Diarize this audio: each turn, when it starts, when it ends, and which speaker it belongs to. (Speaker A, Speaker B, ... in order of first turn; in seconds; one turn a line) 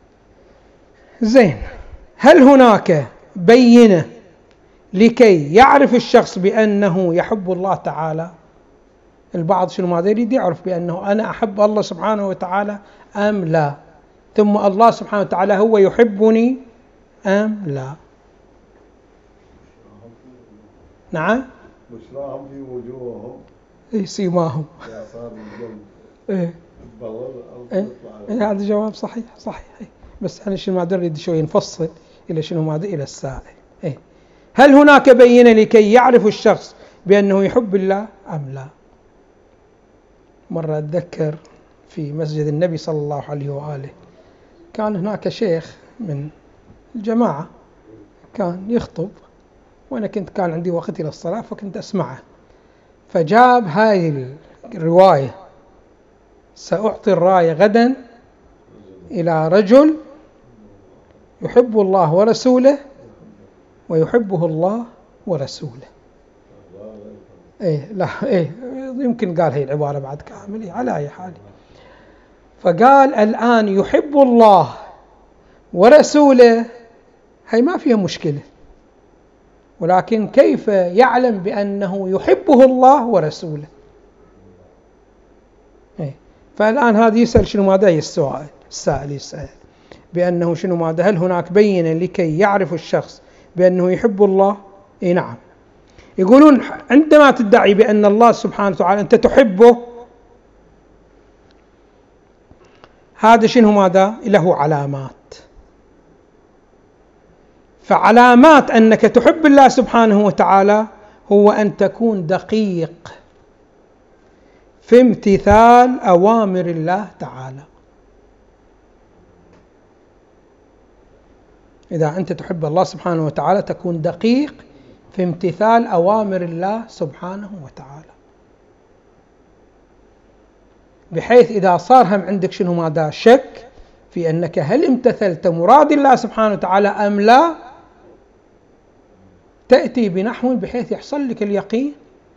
Speaker A: 1.2-1.6
Speaker A: 2.2-4.1
Speaker A: 4.9-8.3
Speaker A: 9.3-13.7
Speaker A: 14.3-16.6
Speaker A: 17.2-18.0
Speaker B: 19.6-20.9
Speaker A: 21.1-21.5
Speaker B: 21.9-23.4
Speaker A: 23.9-24.9
Speaker B: 24.9-25.8
Speaker A: 26.3-26.5
Speaker B: 26.8-27.6
Speaker A: 27.7-34.0
Speaker A: 34.5-38.7
Speaker A: 40.5-43.9
Speaker A: 44.7-46.3
Speaker A: 47.0-47.5
Speaker A: 48.3-49.2
Speaker A: 49.9-52.2
Speaker A: 53.1-55.4
Speaker A: 56.6-58.0
Speaker A: 59.1-60.0
Speaker A: 61.4-62.8
Speaker A: 63.9-65.9
Speaker B: 66.5-67.5
Speaker A: 67.6-71.4
Speaker A: 72.6-74.8
Speaker A: 75.7-76.7
Speaker A: 77.5-78.4
Speaker A: 79.8-83.7
Speaker A: 86.0-89.5
Speaker A: 90.1-95.4
Speaker A: 96.2-99.9
Speaker A: 103.2-105.4
Speaker A: 107.8-113.1
Speaker A: 114.8-117.7
Speaker A: 121.9-124.6
Speaker A: 125.1-128.1
Speaker A: 131.1-137.6
Speaker A: 139.7-141.9